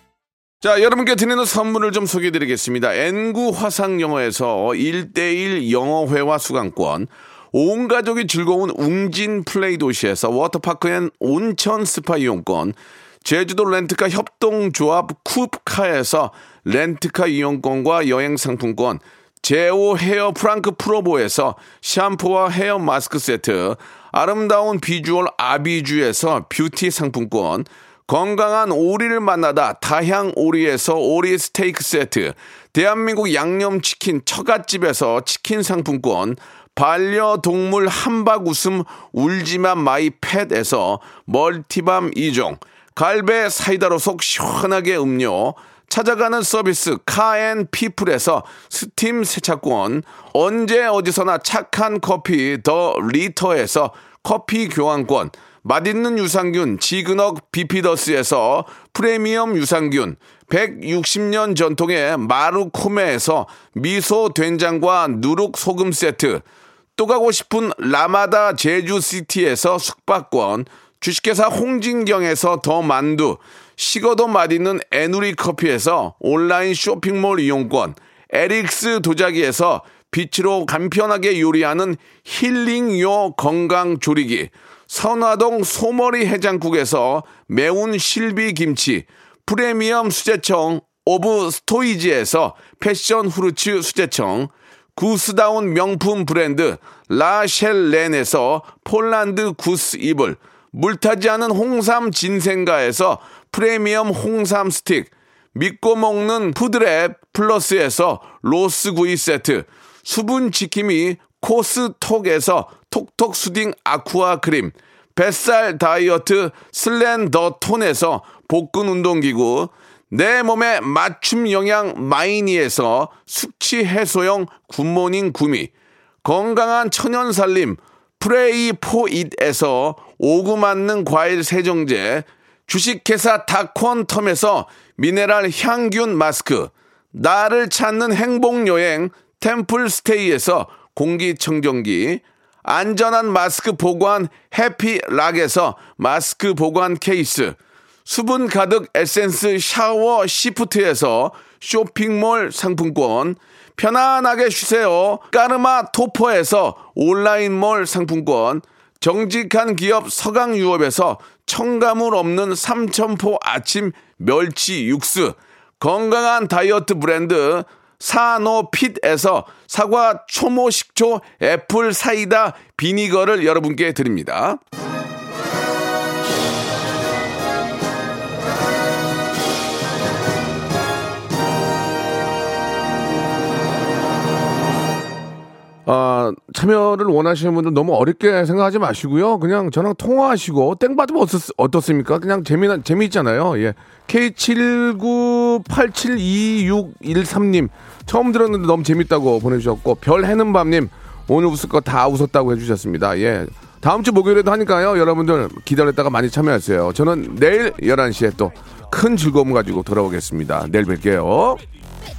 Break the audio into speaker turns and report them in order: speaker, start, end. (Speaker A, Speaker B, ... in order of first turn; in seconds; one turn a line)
Speaker A: 0.6-66.4
Speaker A: 67.0-125.7
Speaker A: 126.2-174.6
Speaker A: 185.9-211.6